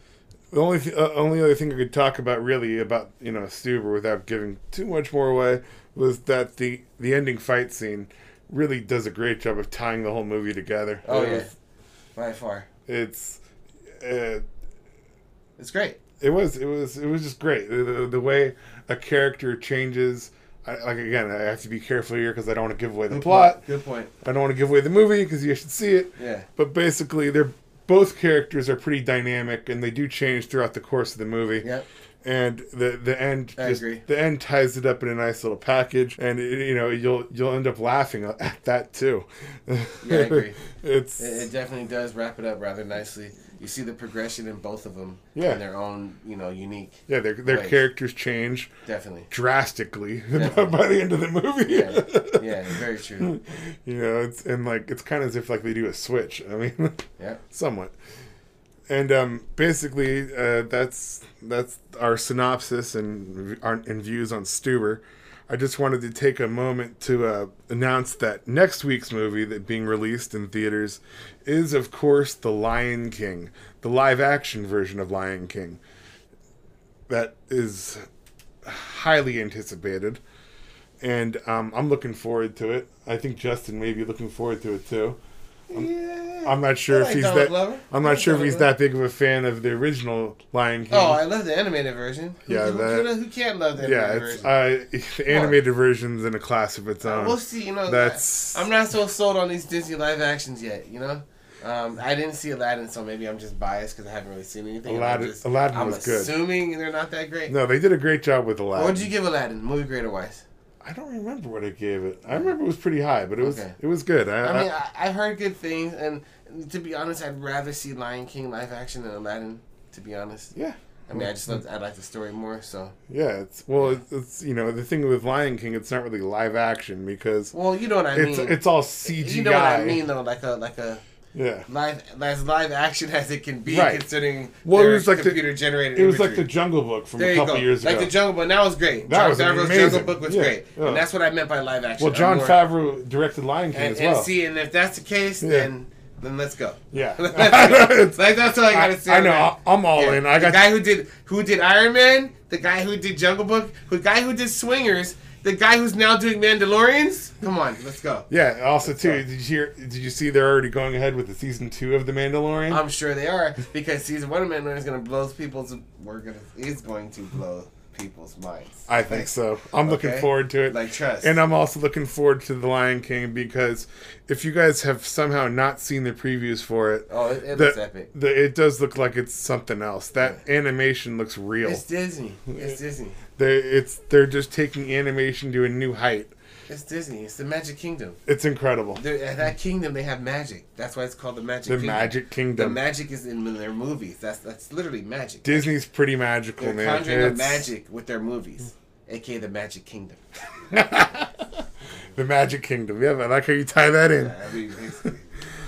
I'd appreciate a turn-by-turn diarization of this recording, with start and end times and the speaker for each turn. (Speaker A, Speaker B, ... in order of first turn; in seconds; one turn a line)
Speaker A: 0.5-11.5
Speaker B: 11.0-11.5
Speaker B: 12.1-12.7
Speaker A: 12.9-13.4
Speaker A: 14.0-14.4
Speaker B: 15.6-16.0
Speaker A: 16.2-23.6
Speaker B: 23.1-24.1
Speaker A: 24.2-31.7
Speaker B: 26.2-26.4
Speaker A: 32.2-41.5
Speaker B: 33.6-34.0
Speaker B: 40.0-40.6
Speaker B: 41.2-47.8
Speaker A: 45.3-45.6
Speaker A: 47.1-48.7
Speaker B: 48.9-49.3
Speaker A: 49.3-52.6
Speaker B: 50.3-50.7
Speaker B: 51.6-53.3
Speaker A: 53.2-57.9
Speaker A: 58.9-75.8
Speaker A: 77.1-78.0
Speaker A: 78.6-80.2
Speaker A: 81.0-85.2
Speaker B: 85.7-88.7
Speaker A: 86.4-91.2
Speaker B: 90.9-94.5
Speaker A: 92.5-93.1
Speaker A: 93.8-98.7
Speaker B: 95.3-95.6
Speaker B: 97.0-107.5
Speaker A: 104.8-106.3
Speaker A: 107.5-109.1
Speaker B: 108.7-110.4
Speaker A: 110.8-114.7
Speaker B: 113.4-113.8
Speaker B: 114.4-120.5
Speaker A: 120.5-121.3
Speaker B: 121.1-122.9
Speaker A: 123.1-127.5
Speaker B: 127.5-131.0
Speaker A: 128.1-130.0
Speaker A: 131.3-131.7
Speaker B: 131.7-136.5
Speaker A: 133.7-134.1
Speaker A: 134.6-135.4
Speaker A: 135.9-138.2
Speaker B: 137.2-142.6
Speaker A: 139.0-141.1
Speaker A: 142.0-144.3
Speaker B: 143.7-158.3
Speaker A: 145.4-145.7
Speaker A: 146.9-150.7
Speaker A: 158.3-162.8
Speaker B: 158.8-159.2
Speaker B: 162.7-169.3
Speaker A: 168.9-181.8
Speaker B: 169.8-171.4
Speaker B: 177.1-178.1
Speaker B: 181.6-183.2
Speaker A: 183.4-186.3
Speaker B: 186.7-188.2
Speaker A: 188.2-189.0
Speaker B: 188.9-195.7
Speaker A: 191.7-192.8
Speaker A: 195.4-197.7
Speaker B: 196.6-200.2
Speaker A: 200.7-201.5
Speaker A: 202.1-204.4
Speaker B: 204.1-205.3